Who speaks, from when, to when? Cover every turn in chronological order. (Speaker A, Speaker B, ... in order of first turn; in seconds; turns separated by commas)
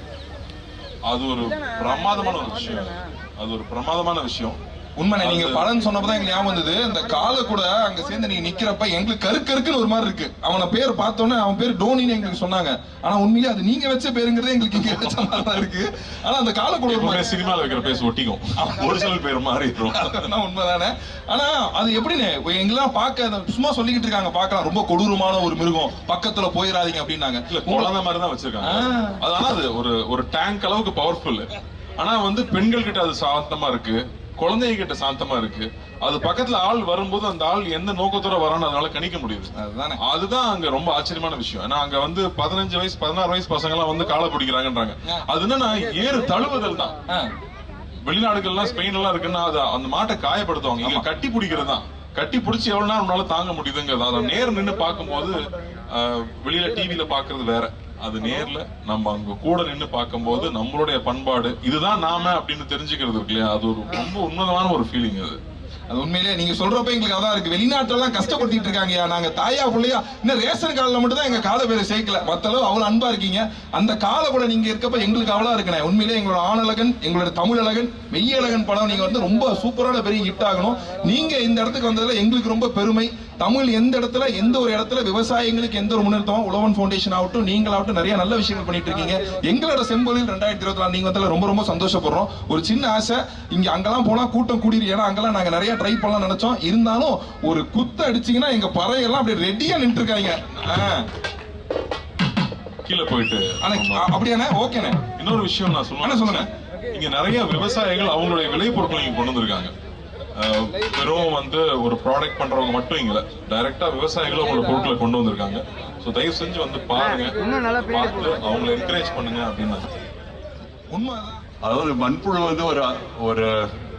Speaker A: 1.1-4.6, Speaker B: 5.0-17.3, Speaker A: 5.2-5.7, Speaker A: 16.9-20.3, Speaker B: 18.6-19.1, Speaker B: 19.9-27.9, Speaker A: 27.5-31.5, Speaker B: 28.6-29.2, Speaker A: 32.0-46.9, Speaker B: 39.6-40.0, Speaker A: 48.0-65.4, Speaker B: 65.9-101.0, Speaker A: 102.8-104.1, Speaker B: 103.6-105.0, Speaker A: 105.2-109.7, Speaker B: 106.0-106.5, Speaker A: 110.3-119.9, Speaker B: 120.9-121.4, Speaker C: 121.6-123.6